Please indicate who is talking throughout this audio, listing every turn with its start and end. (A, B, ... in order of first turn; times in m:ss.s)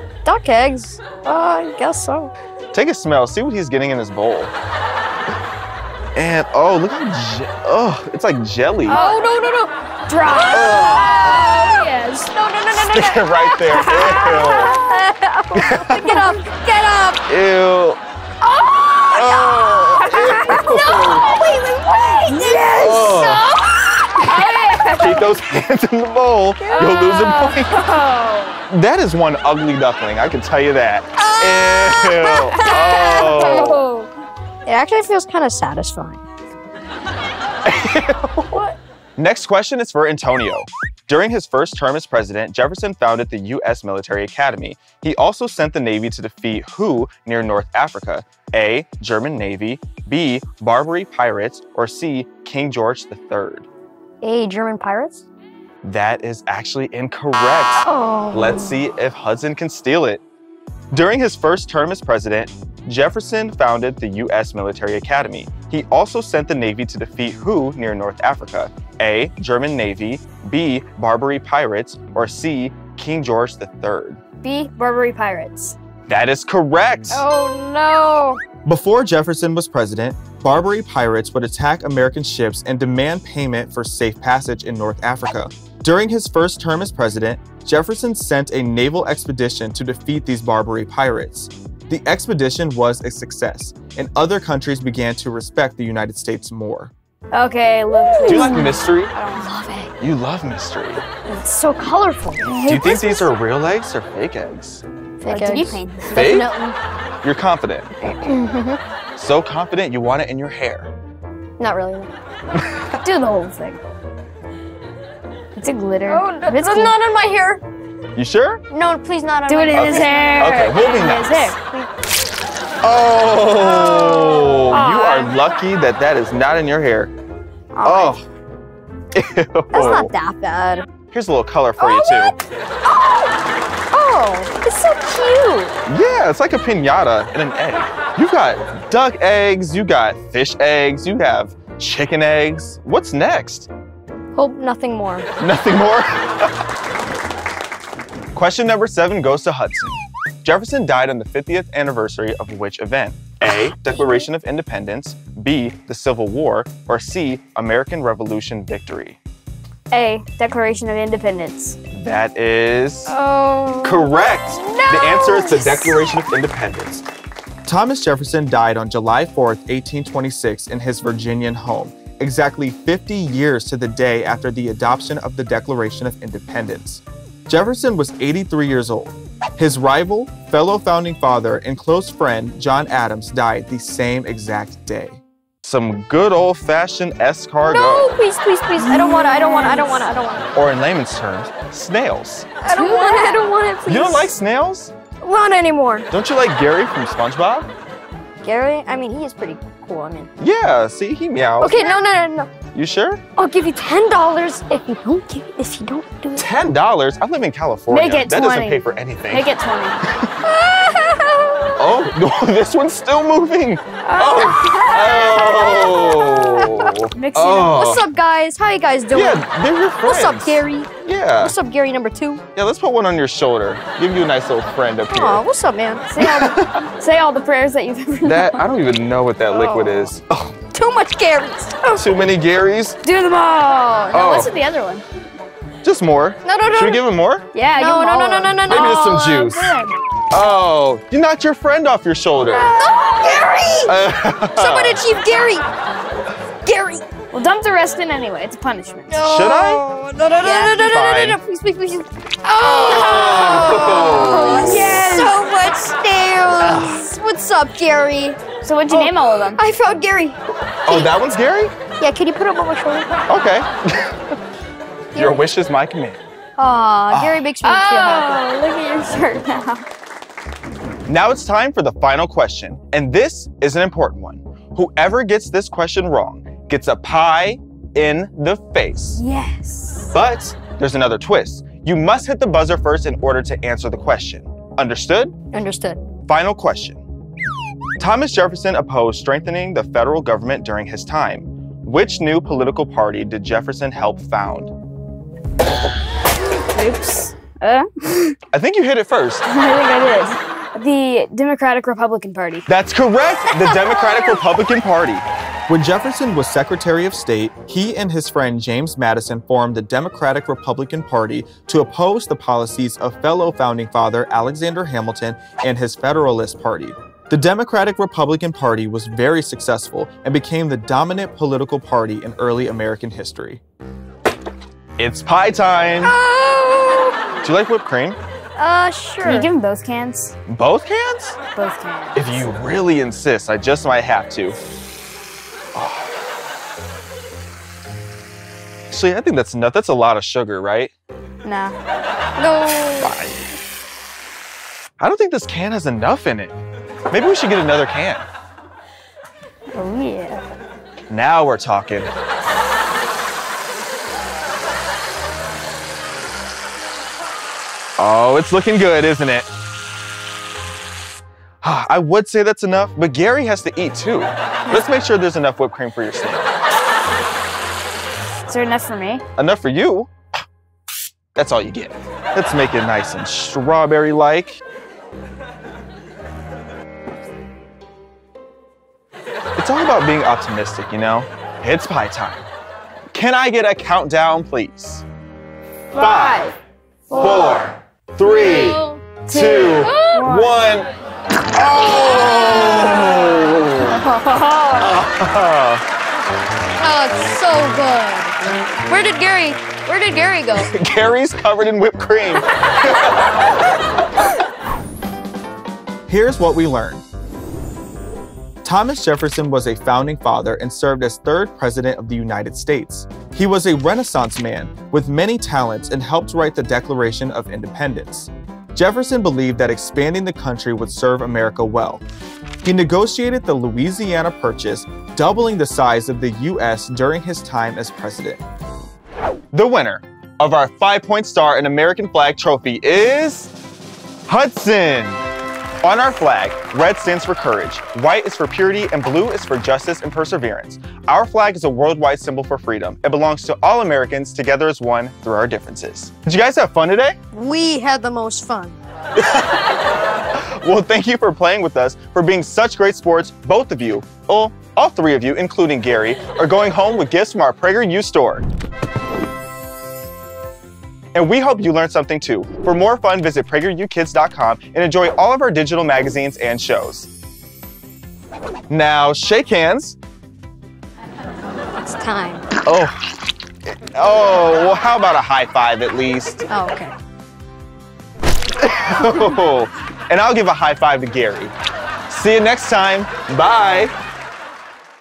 0:00.2-0:02.3 A
0:02.7-0:04.5 B
0:06.1-0:09.0 B
0:08.8-0:09.3 C
0:08.9-0:09.7 A
0:10.1-0:12.3 C
0:10.2-0:13.6 A
0:10.5-0:11.4 B
0:12.7-0:14.7 B
0:13.6-0:15.0 C
0:14.5-0:17.2 A
0:15.5-0:16.2 B
0:16.0-0:16.4 C
0:17.3-0:18.0 B
0:18.4-0:24.7 A
0:19.1-0:21.3 B
0:19.9-0:20.8 C
0:22.3-0:23.2 C
0:22.7-0:23.5 B
0:24.2-0:25.3 C
0:24.8-0:27.9 B
0:26.6-0:27.1 A
0:26.8-0:28.6 C
0:28.7-0:33.8 B
0:31.2-0:33.8 A
0:32.5-0:34.1 C
0:34.6-0:36.2 A
0:37.6-0:38.6 B
0:39.2-0:53.7 B
0:54.2-0:55.2 A
0:55.8-1:00.2 B
0:57.8-0:58.8 A
1:00.9-1:14.2 B
1:14.4-1:15.8 C
1:16.1-1:17.2 B
1:17.1-1:18.4 A
1:18.6-1:36.9 B
1:37.3-1:39.5 C
1:38.0-1:38.8 A
1:38.2-1:39.1 B
1:39.4-1:39.9 A
1:40.0-1:41.0 B
1:41.2-1:42.6 A
1:42.4-1:43.3 C
1:42.6-1:44.8 B
1:45.2-1:46.8 A
1:45.3-1:46.3 C
1:46.1-1:46.6 B
1:47.2-1:47.9 B
1:48.0-1:48.8 A
1:49.2-1:50.9 B
1:51.6-1:52.1 A
1:52.6-1:52.9 B
1:53.0-1:53.8 C
1:55.6-1:56.9 C
1:56.0-1:57.6 A
1:58.1-1:58.6 B
1:58.7-2:00.4 A
1:59.5-2:01.6 C
1:59.7-2:01.5 B
2:01.6-2:01.9 A
2:02.8-2:07.1 B
2:04.0-2:04.6 A
2:04.7-2:05.3 C
2:07.7-2:08.2 C
2:07.8-2:08.2 B
2:09.1-2:10.1 B
2:09.7-2:10.8 A
2:11.1-2:12.3 B
2:11.8-2:12.3 A
2:12.8-2:13.4 A
2:13.9-2:15.7 A
2:15.9-2:23.7 B
2:24.3-2:25.3 A
2:25.4-2:26.5 B
2:28.3-2:39.2 B
2:39.9-2:41.8 C
2:41.9-2:43.2 B
2:43.1-2:44.1 C
2:43.4-2:43.9 A
2:43.8-2:47.0 B
2:44.6-2:45.9 A
2:47.6-3:08.2 B
3:07.6-3:10.5 A
3:08.8-3:10.1 C
3:10.5-3:12.5 B
3:12.6-3:14.3 A
3:12.6-3:13.5 C
3:13.8-3:14.9 B
3:15.2-3:16.1 A
3:16.1-3:17.7 B
3:18.4-3:20.3 A
3:20.4-3:22.0 B
3:21.6-3:22.5 A
3:22.7-3:23.2 B
3:23.4-3:26.5 A
3:26.3-3:29.5 B
3:27.9-3:30.0 C
3:30.4-3:31.9 A
3:31.8-3:38.0 B
3:34.0-3:36.4 C
3:35.4-3:36.9 A
3:37.1-3:37.8 C
3:37.7-3:39.4 A
3:39.1-3:41.5 B
3:40.0-3:42.4 A
3:42.5-3:45.4 B
3:45.1-3:46.2 A
3:46.1-3:48.6 C
3:46.2-3:46.8 B
3:48.2-3:50.5 B
3:49.5-3:50.1 A
3:50.7-3:52.2 A
3:51.9-3:53.0 B
3:53.0-3:55.0 C
3:54.1-3:54.5 B
3:55.8-3:57.4 B
3:56.4-3:57.0 A
3:57.5-3:58.8 C
3:57.8-3:59.5 A
3:58.7-3:59.8 B
3:59.4-3:59.9 C
4:00.3-4:02.7 B
4:02.4-4:03.4 C
4:02.5-4:04.0 A
4:03.8-4:05.0 B
4:04.5-4:05.7 A
4:06.6-4:07.0 A
4:07.3-4:09.2 C
4:09.1-4:21.1 A
4:09.2-4:09.8 B
4:10.4-4:11.4 B
4:12.6-4:15.0 B
4:14.1-4:15.4 C
4:16.6-4:17.0 B
4:18.6-4:19.6 C
4:20.8-4:21.7 B
4:22.0-4:23.1 A
4:23.3-4:24.4 B
4:25.1-4:25.4 A
4:25.1-4:26.2 B
4:26.6-4:28.4 A
4:27.1-4:27.5 B
4:27.6-4:29.8 C
4:31.0-4:39.2 B
4:39.2-4:40.1 C
4:40.1-4:45.3 B
4:45.5-4:46.0 A
4:46.3-4:47.0 B
4:48.0-4:54.7 B
4:56.7-4:58.4 C
4:58.5-4:59.4 B
4:59.4-5:02.6 C
5:02.7-5:23.6 B
5:25.0-5:26.1 B
5:26.0-5:27.2 A
5:27.4-5:28.2 B
5:28.6-5:29.5 A
5:29.2-5:30.3 C
5:30.5-5:31.4 B
5:31.5-5:32.4 C
5:32.1-5:34.6 B
5:35.7-5:36.1 B
5:38.9-5:40.9 B
5:41.4-5:41.7 C
5:42.4-5:43.1 A
5:43.0-5:43.5 B
5:45.0-5:46.6 B
5:47.1-5:48.2 B
5:49.7-5:50.4 C
5:51.1-5:52.1 B
5:58.0-5:59.5 B
6:01.6-6:06.5 B
6:08.5-6:09.2 C
6:09.4-6:10.1 B
6:11.3-6:14.6 B
6:19.6-6:22.5 B
6:23.1-6:25.0 B
6:25.9-6:26.6 C
6:26.0-6:26.5 B
6:27.1-6:27.6 C
6:27.1-6:30.9 B
6:28.2-6:29.0 A
6:29.2-6:30.6 C
6:29.8-6:30.3 A
6:31.5-6:34.0 B
6:31.9-6:32.8 A
6:33.9-6:35.0 C
6:34.8-6:35.8 B
6:36.8-6:38.3 A
6:38.9-6:40.7 A
6:40.5-6:43.6 B
6:46.1-6:47.0 B
6:48.6-7:02.0 B
7:02.6-7:08.4 B
7:09.5-7:13.5 B
7:14.3-7:15.2 B
7:15.8-7:27.2 B
7:27.3-7:28.8 A
7:29.2-7:29.6 B
7:30.3-7:38.4 B
7:41.1-7:47.1 B
7:48.7-7:50.0 B
7:51.8-7:52.4 A
7:52.6-7:53.0 B
7:53.7-7:56.4 B
7:56.5-7:56.9 A
7:58.6-8:01.5 B
8:02.1-8:03.9 B